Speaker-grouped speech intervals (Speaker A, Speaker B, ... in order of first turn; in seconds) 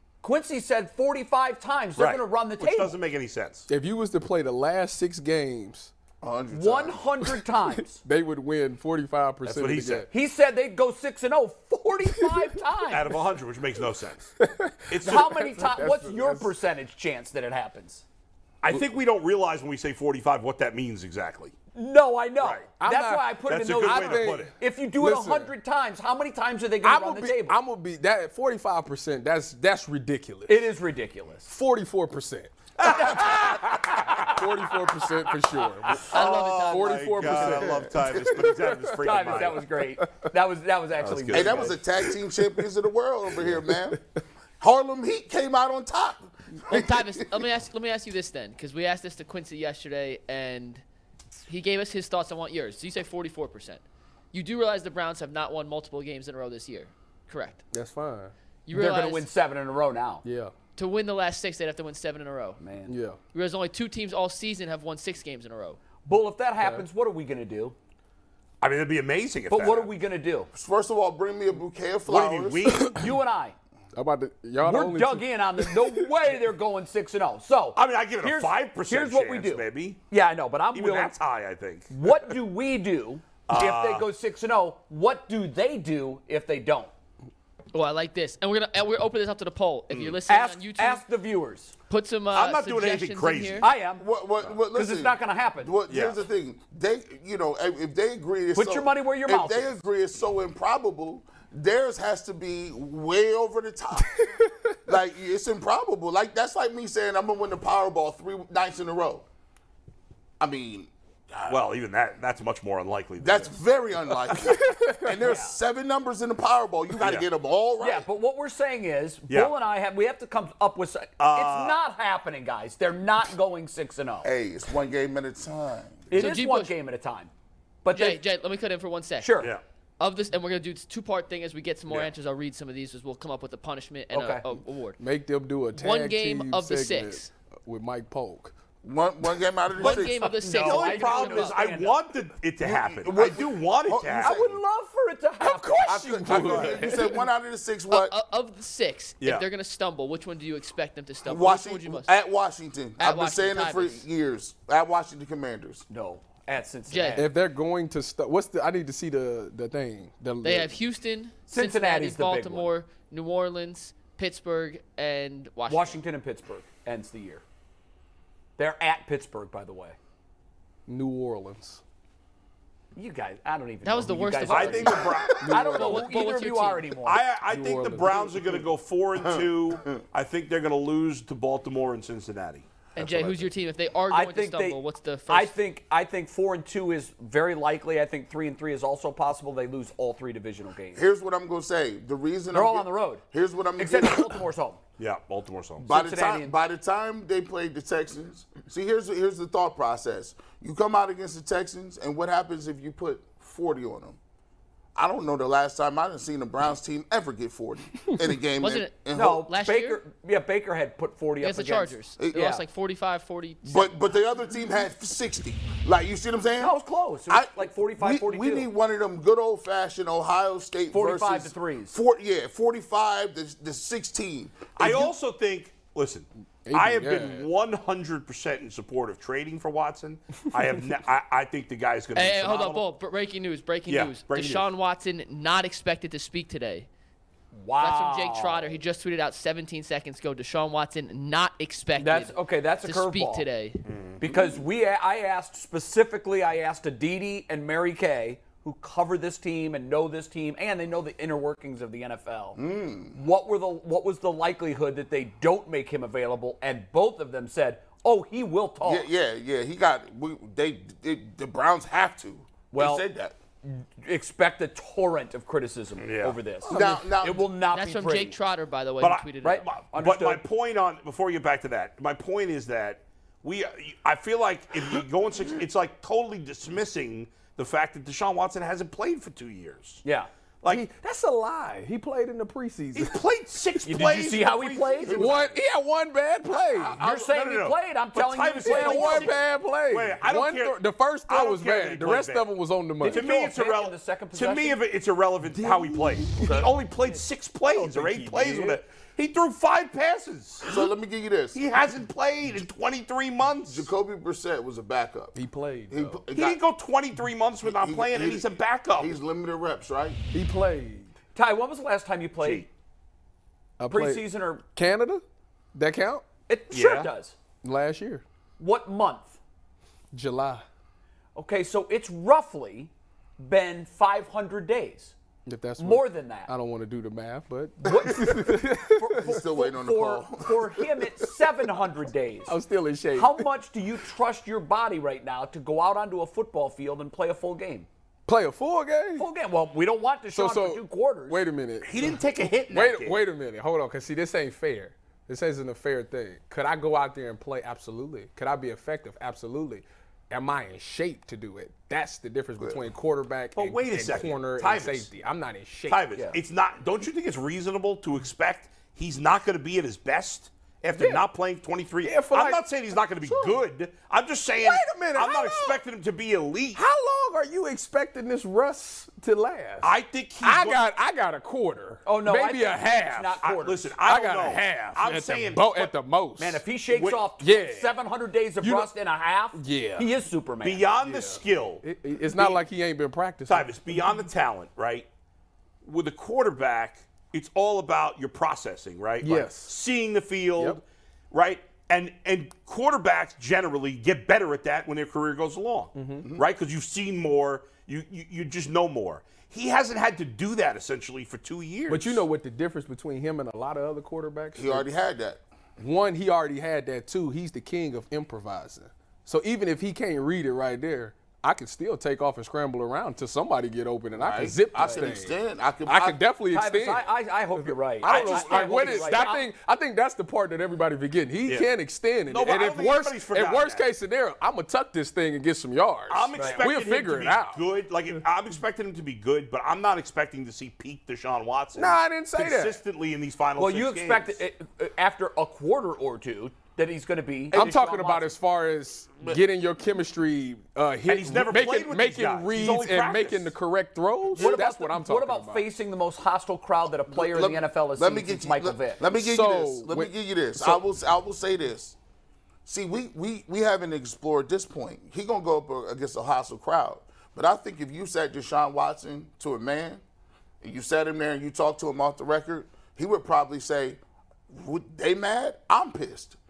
Speaker A: 0.2-3.0, 6.5-8.0, 10.1-13.2, 15.0-18.0, 21.7-27.6, 30.5-31.5, 32.9-33.4, 39.0-41.8, 58.7-60.2, 62.6-62.9, 66.1-67.8, 69.5-70.5, 72.9-73.5, 74.6-81.1, 81.9-86.9, 90.3-91.7, 93.6-95.7, 98.5-99.7, 115.2-115.6, 117.8-124.3, 126.1-127.3, 127.8-128.2, 129.2-129.5, 134.1-134.4, 139.8-142.0, 144.2-146.9, 155.9-157.3, 161.5-162.7, 165.7-167.4, 168.6-170.0, 172.9-177.2, 184.1-191.0, 192.5-193.2, 193.8-194.8, 195.9-196.6, 209.1-212.6, 216.6-218.7, 220.9-222.0, 237.5-238.8, 242.0-243.5, 244.2-252.6, 253.1-259.1, 262.7-263.1, 263.6-268.4, 269.4-270.4, 280.0-280.3, 283.9-285.4, 286.9-289.4, 293.0-294.8, 311.4-312.6, 313.9-314.6, 316.5-317.4, 318.6-319.4, 321.4-325.1, 325.8-326.5, 327.8-332.6, 333.1-337.9, 339.1-341.4, 372.1-373.9, 376.4-380.9, 416.5-419.5, 426.4-426.7, 433.6-438.3, 444.4-449.0
Speaker B: 2.0-3.7, 9.4-10.1, 12.9-14.3, 14.9-15.4, 18.6-21.5, 22.4-22.7, 23.5-24.5, 32.8-34.4, 36.0-39.6, 41.0-41.7, 68.6-69.9, 72.1-73.0, 77.7-80.0, 80.7-81.9, 83.5-84.1, 89.9-90.2, 92.3-93.7, 95.9-96.2, 111.5-113.5, 117.0-117.3, 121.2-121.8, 139.8-144.4, 149.2-149.4, 174.5-176.0, 177.0-183.3, 195.0-195.9, 224.8-232.8, 233.9-234.7, 243.8-244.2, 266.0-266.4, 269.0-280.0, 282.9-285.6, 286.9-292.5, 293.1-300.8, 301.5-303.9, 306.3-309.2, 312.4-312.7, 316.7-317.1, 341.8-343.2, 353.6-355.1, 355.9-366.8, 369.8-370.8, 373.4-375.9, 376.9-377.2, 380.6-382.6, 383.5-385.1, 385.8-402.2, 418.0-419.2, 422.3-423.9, 426.1-434.3, 441.1-443.5
Speaker C: 3.7-5.9, 7.9-10.1, 12.2-12.5, 14.4-16.5, 22.8-25.5, 26.8-30.7, 31.5-39.0, 39.8-40.1, 43.4-43.9, 57.7-58.3, 60.2-60.5, 62.9-63.2, 66.6-66.9, 73.9-76.1, 114.6-115.0, 135.0-138.5, 145.4-147.2, 157.2-160.7, 170.9-171.8, 175.4-176.1, 177.5-178.6, 226.6-227.5, 266.7-267.0, 280.6-283.2, 285.1-287.0, 288.6-293.2, 297.7-298.8, 305.4-306.2, 310.3-311.1, 313.8-315.2, 315.7-316.2, 317.6-318.2, 320.1-320.6, 325.4-329.4, 332.5-333.5, 338.3-339.2, 340.3-341.9, 342.7-356.1, 360.9-361.2, 362.0-362.6, 363.3-363.5, 364.6-365.8, 366.7-373.4, 374.0-376.6, 377.4-377.9, 378.6-378.9, 379.5-380.1, 381.0-383.7, 389.2-389.7, 395.9-396.2, 401.9-404.9, 405.8-417.1, 417.6-427.6, 431.7-432.8, 437.5-445.7, 449.0-450.8
Speaker D: 6.2-7.3, 41.3-44.0, 44.6-47.4, 70.5-72.8, 94.0-109.2, 110.4-111.6, 113.2-118.1, 124.2-126.1, 138.8-140.2, 142.6-144.6, 146.0-148.2, 151.2-155.8, 179.2-180.0, 190.9-194.4, 195.8-204.2, 204.9-209.4, 212.2-212.5, 213.6-216.8, 217.3-225.1, 244.2-244.5, 252.6-253.2, 258.8-263.4, 266.7-267.5, 300.6-301.6, 303.7-305.4, 305.9-306.6, 307.6-308.4, 309.0-310.2, 329.2-331.0, 404.6-405.4, 414.2-416.2, 447.1-451.9, 452.6-460.0, 460.6-464.0, 464.5-466.4
Speaker E: 36.1-37.5, 46.7-50.8, 51.5-53.8, 54.3-57.6, 58.7-59.3, 60.7-62.6, 63.3-65.8, 87.7-91.0, 91.9-93.7, 126.1-126.7, 127.9-129.4, 130.0-135.0, 135.7-137.3, 139.8-141.8, 147.9-152.1, 153.0-154.0, 156.9-157.2, 160.4-166.0, 173.8-176.9, 182.9-185.6, 208.6-210.0, 211.4-214.1, 232.1-236.9, 237.8-243.8, 267.7-269.6